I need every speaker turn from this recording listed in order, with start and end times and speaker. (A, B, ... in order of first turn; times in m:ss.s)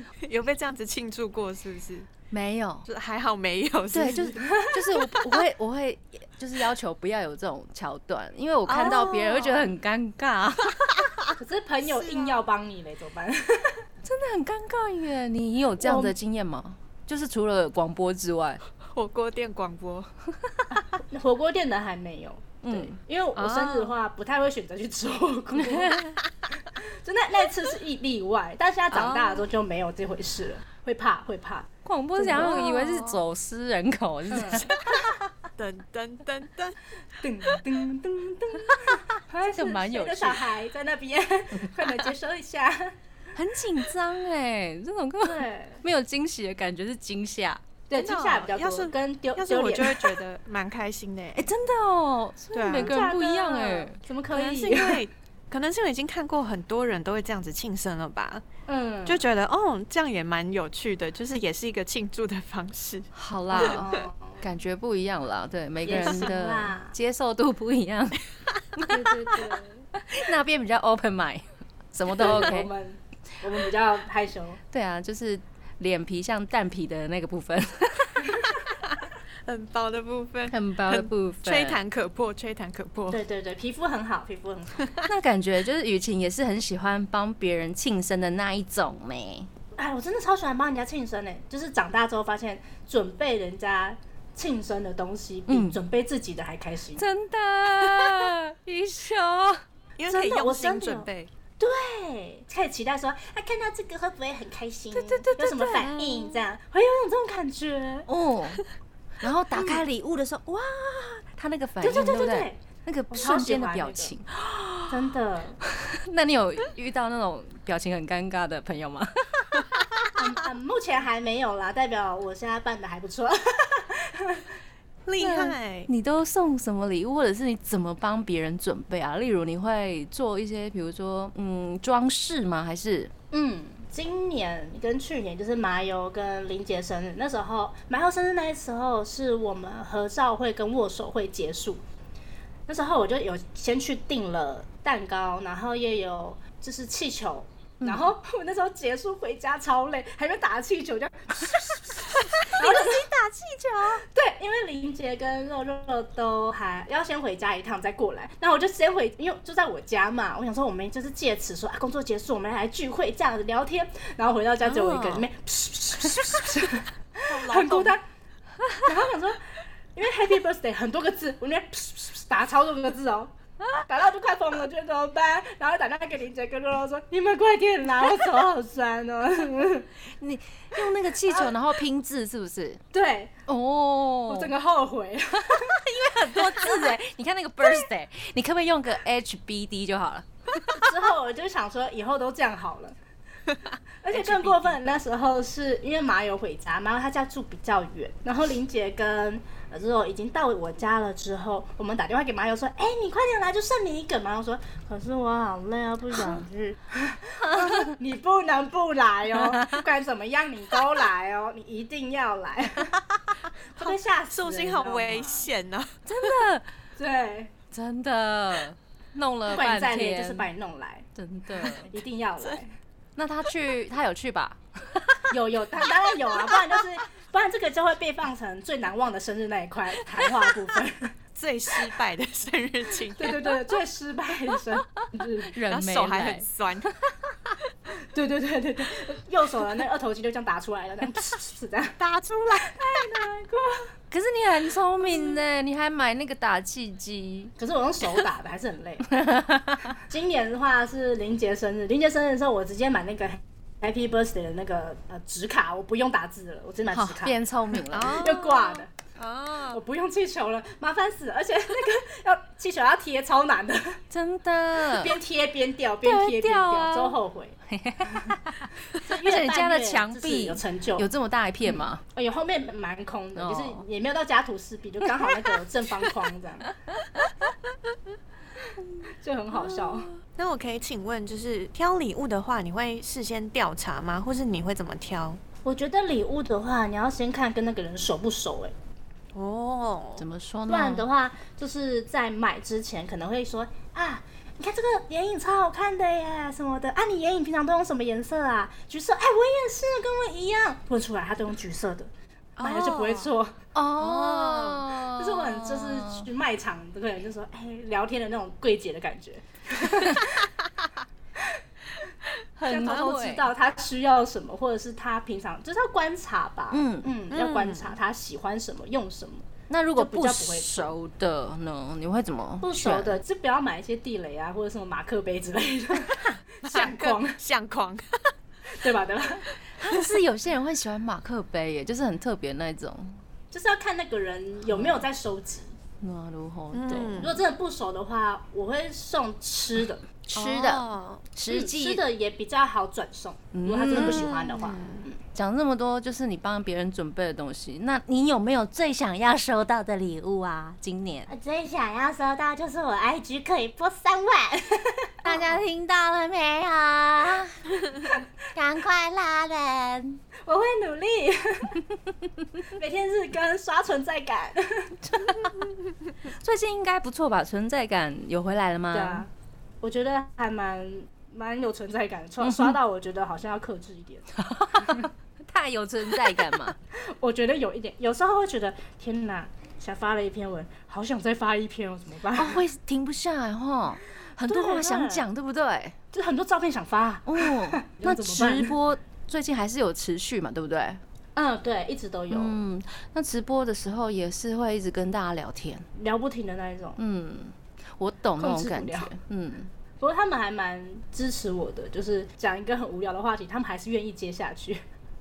0:00.2-0:02.1 A
0:02.3-0:02.9 B
0:02.8-0:04.4 A
0:03.9-0:11.0 B
0:04.4-0:04.8 C
0:08.7-0:09.7 A
0:11.0-0:11.3 A
0:11.4-0:13.8 C
0:11.8-0:12.4 A
0:14.0-0:18.6 B
0:15.8-0:16.2 C
0:18.8-0:20.1 A
0:20.7-0:26.0 C
0:22.6-0:23.0 B
0:23.4-0:24.0 A
0:25.6-0:26.2 B
0:26.8-0:32.9 C
0:29.0-0:29.4 B
0:31.8-0:35.1 B
0:32.3-0:33.2 A
0:34.3-0:34.7 C
0:35.6-0:36.8 A
0:37.2-0:42.9 C
0:39.4-0:40.4 B
0:43.4-0:47.6 B
0:45.2-0:45.8 C
0:47.9-0:50.2 C
0:48.0-0:51.5 A
0:51.4-0:54.0 B
0:52.5-0:53.0 A
0:52.7-0:55.0 C
0:54.3-0:58.4 A
0:58.7-0:59.3 C
0:59.1-1:03.8 A
1:03.2-1:08.2 B
1:03.5-1:04.4 C
1:05.8-1:07.0 C
1:08.8-1:09.3 B
1:08.8-1:09.9 C
1:10.0-1:12.7 B
1:12.1-1:14.6 C
1:14.7-1:18.6 B
1:19.5-1:23.2 A
1:20.5-1:21.8 B
1:23.1-1:24.9 C
1:25.1-1:29.5 B
1:29.8-1:37.1 C
1:35.5-1:35.8 B
1:37.0-1:39.6 B
1:40.0-1:41.3 A
1:40.1-1:41.1 C
1:41.6-1:48.1 C
1:44.9-1:45.9 B
1:45.9-1:46.4 A
1:48.1-1:48.6 B
1:49.2-1:55.0 B
1:49.5-1:49.8 C
1:51.8-1:54.1 C
1:54.9-1:55.6 C
1:55.8-1:59.8 B
2:00.2-2:04.5 C
2:05.1-2:05.9 A
2:05.2-2:13.1 B
2:13.3-2:21.8 C
2:22.7-2:33.1 C
2:27.8-2:28.1 B
2:32.4-2:34.0 B
2:34.1-2:48.0 C
2:44.7-2:45.2 A
2:47.3-2:48.0 A
2:48.8-2:59.9 C
3:00.2-3:02.8 B
3:01.3-3:01.5 C
3:02.9-3:03.4 C
3:03.5-3:04.5 B
3:04.3-3:05.8 C
3:05.5-3:10.8 B
3:10.7-3:13.0 C
3:14.0-3:33.0 C
3:14.1-3:14.8 B
3:27.5-3:27.9 B
3:29.4-3:29.8 B
3:33.7-3:35.5 C
3:34.3-3:36.3 A
3:36.1-3:36.7 B
3:37.0-3:37.5 C
3:37.7-3:40.5 B
3:39.5-3:41.1 C
3:41.2-3:41.9 B
3:41.6-3:42.8 C
3:43.2-3:45.3 B
3:45.3-3:51.1 C
3:51.4-3:53.5 A
3:53.2-3:55.5 C
3:55.5-3:56.4 B
3:55.7-3:56.9 A
3:58.1-4:02.0 C
4:02.0-4:02.8 A
4:02.6-4:03.9 C
4:04.1-4:07.5 B
4:07.6-4:09.1 C
4:09.1-4:10.0 B
4:10.0-4:17.4 C
4:16.9-4:18.2 B
4:17.9-4:19.8 A
4:18.0-4:18.9 C
4:19.7-4:24.0 C
4:24.1-4:25.2 B
4:24.9-4:28.4 C
4:26.0-4:27.2 B
4:27.7-4:32.0 B
4:28.9-4:31.1 C
4:31.7-4:36.7 C
4:33.4-4:33.8 B
4:35.2-4:35.5 B
4:37.0-4:37.3 B
4:39.2-4:40.1 C
4:40.2-4:45.4 A
4:45.6-4:48.7 C
4:49.3-4:50.2 A
4:50.2-4:51.0 B
4:50.7-5:03.6 C
5:02.6-5:03.3 A
5:03.8-5:06.3 B
5:04.0-5:04.9 A
5:05.2-5:10.5 C
5:12.6-5:13.5 B
5:12.6-5:20.9 C
5:16.7-5:17.1 B
5:17.3-5:18.0 A
5:19.7-5:23.2 B
5:22.6-5:27.4 C
5:26.6-5:28.3 A
5:28.7-5:29.5 C
5:29.8-5:33.2 B
5:33.5-5:35.8 C
5:34.7-5:35.0 B
5:36.0-5:37.3 B
5:36.7-5:37.4 A
5:37.1-5:40.0 C
5:40.2-5:42.0 B
5:40.4-5:41.2 A
5:41.5-5:45.2 C
5:43.5-5:44.3 B
5:43.9-5:45.0 A
5:45.3-5:51.3 B
5:51.3-5:55.6 C
5:55.2-6:00.2 B
6:00.4-6:01.8 C
6:02.7-6:05.3 C
6:05.1-6:05.6 B
6:06.3-6:09.2 B
6:08.9-6:09.3 C
6:09.8-6:14.3 C
6:12.4-6:12.8 B
6:14.4-6:16.8 B
6:14.8-6:15.1 C
6:16.9-6:22.6 C
6:22.4-6:26.0 B
6:24.4-6:25.3 C
6:26.1-6:28.8 C
6:27.3-6:31.0 B
6:31.4-6:32.6 C
6:32.3-6:35.9 B
6:36.0-6:37.0 C
6:37.0-6:39.7 B
6:38.4-6:39.1 C
6:40.0-6:44.8 C